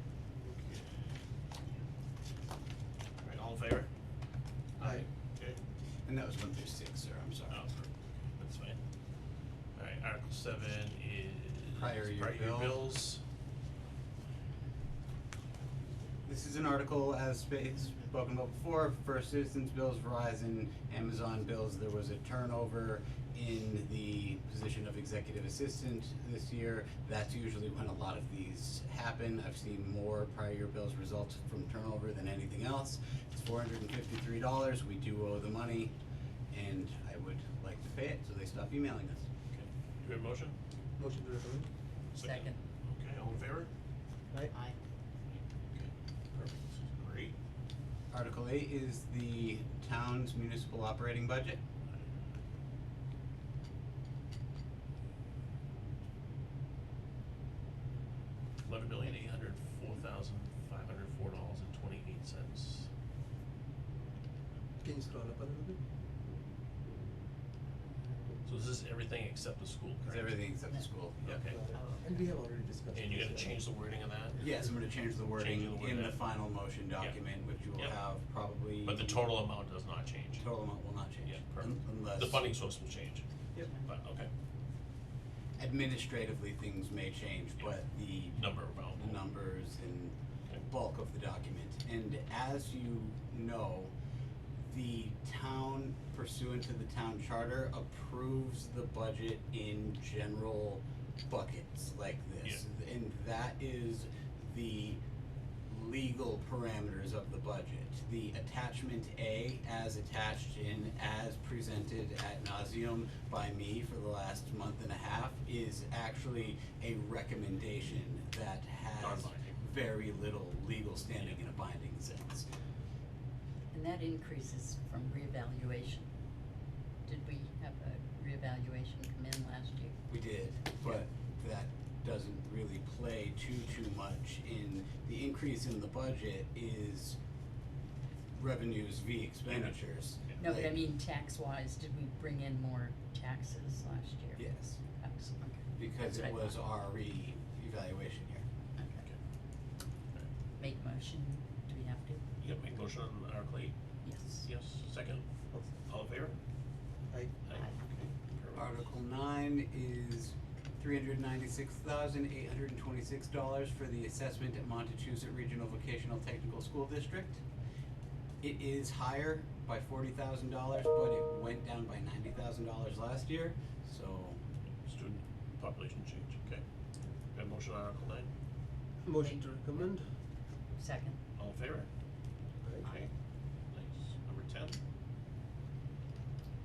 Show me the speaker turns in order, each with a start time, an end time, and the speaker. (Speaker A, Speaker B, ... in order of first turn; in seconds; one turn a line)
Speaker A: 0.6-0.8
Speaker A: 3.2-3.9
Speaker A: 4.8-5.6
Speaker B: 6.0-7.6
Speaker A: 7.5-8.8
Speaker A: 9.8-13.2
Speaker B: 11.7-12.8
Speaker B: 16.2-35.9
Speaker B: 36.5-39.2
Speaker A: 39.5-40.5
Speaker C: 41.0-41.7
Speaker A: 42.1-43.7
Speaker D: 42.2-42.6
Speaker D: 44.5-44.8
Speaker A: 45.3-47.3
Speaker B: 48.1-51.6
Speaker A: 58.6-62.9
Speaker C: 64.8-65.8
Speaker A: 68.4-70.4
Speaker B: 70.0-71.3
Speaker A: 71.2-71.6
Speaker C: 71.5-73.6
Speaker D: 71.7-72.2
Speaker A: 72.9-74.4
Speaker B: 74.4-79.2
Speaker A: 75.3-76.3
Speaker A: 77.7-78.0
Speaker A: 78.8-80.5
Speaker B: 80.4-82.5
Speaker A: 81.2-83.2
Speaker A: 83.8-84.3
Speaker B: 85.6-90.1
Speaker A: 88.3-89.2
Speaker B: 90.7-93.9
Speaker B: 94.7-105.0
Speaker B: 105.7-122.5
Speaker A: 119.0-119.6
Speaker A: 121.1-121.4
Speaker D: 123.7-126.1
Speaker D: 127.0-129.9
Speaker B: 130.1-137.2
Speaker B: 138.3-140.7
Speaker A: 139.5-140.4
Speaker D: 140.4-146.6
Speaker B: 144.3-144.8
Speaker B: 145.8-148.4
Speaker D: 148.8-149.1
Speaker D: 150.6-152.2
Speaker A: 152.4-153.7
Speaker D: 154.0-154.5
Speaker A: 154.3-155.2
Speaker A: 155.8-156.4
Speaker A: 157.4-158.9
Speaker B: 158.5-167.4
Speaker B: 168.4-174.4
Speaker A: 174.8-176.6
Speaker A: 177.3-178.3
Speaker C: 179.0-180.1
Speaker D: 179.1-179.9
Speaker D: 180.8-181.2
Speaker A: 181.3-181.9
Speaker A: 182.8-183.1
Speaker A: 183.7-184.8